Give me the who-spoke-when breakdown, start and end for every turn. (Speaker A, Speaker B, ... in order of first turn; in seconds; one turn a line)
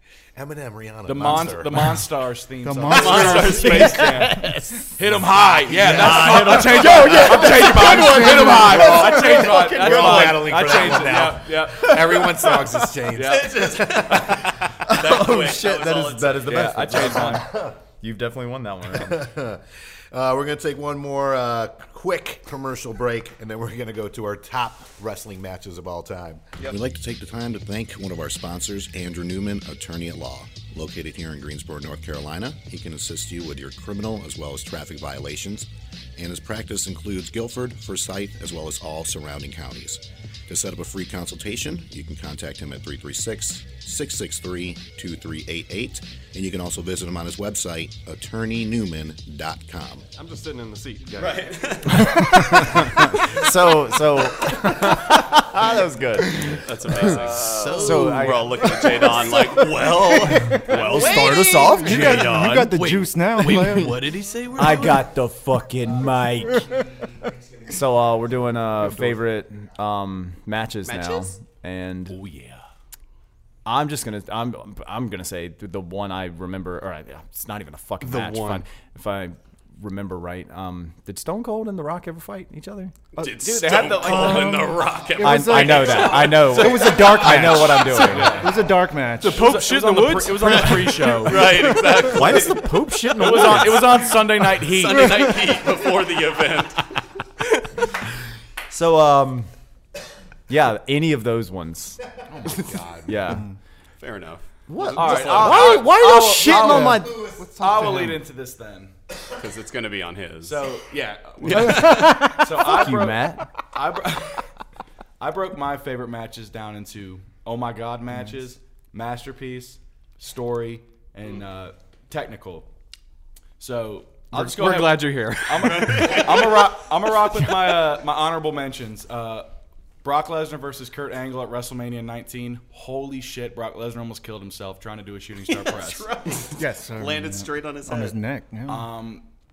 Speaker A: 0.3-2.1
Speaker B: 1.1-12.3
Speaker C: 2.6-4.5
Speaker D: 2.9-4.2
Speaker E: 4.0-4.7
Speaker A: 5.7-14.7
Speaker E: 6.0-9.1
Speaker C: 7.7-9.1
Speaker B: 13.1-13.8
Speaker D: 13.3-16.8
Speaker E: 14.9-19.3
Speaker B: 16.4-17.5
Speaker A: 17.3-17.7
Speaker A: 18.9-50.1
Speaker F: 50.2-51.8
Speaker D: 51.2-52.8
Speaker E: 52.0-56.6
Speaker D: 56.5-61.8
Speaker F: 57.5-58.1
Speaker B: 57.5-58.2
Speaker E: 57.7-59.1
Speaker C: 59.9-64.0
Speaker E: 60.6-62.8
Speaker B: 60.7-65.1
Speaker E: 64.5-66.7
Speaker E: 67.7-72.2
Speaker D: 70.9-71.3
Speaker B: 72.1-72.7
Speaker E: 73.7-82.9
Speaker F: 78.0-78.6
Speaker D: 83.2-86.7
Speaker B: 83.4-84.7
Speaker C: 84.0-89.5
Speaker E: 85.2-88.4
Speaker B: 85.5-92.4
Speaker F: 89.3-91.3
Speaker D: 90.4-92.7
Speaker E: 92.0-94.1
Speaker B: 93.1-95.4
Speaker D: 93.2-96.8
Speaker E: 98.7-99.5
Speaker E: 100.5-102.0
Speaker B: 102.3-103.3
Speaker E: 103.1-103.5
Speaker C: 103.3-103.6
Speaker D: 104.0-105.9
Speaker E: 104.7-107.2
Speaker B: 104.9-108.9
Speaker C: 106.4-108.2
Speaker D: 109.3-110.7
Speaker B: 110.4-114.5
Speaker D: 111.4-112.3
Speaker C: 111.9-112.3
Speaker E: 112.5-113.5
Speaker B: 115.2-122.7
Speaker B: 123.6-129.5
Speaker F: 124.3-126.5
Speaker D: 125.6-126.6
Speaker B: 130.0-136.1
Speaker D: 135.5-138.2
Speaker C: 136.4-138.9
Speaker B: 138.7-139.2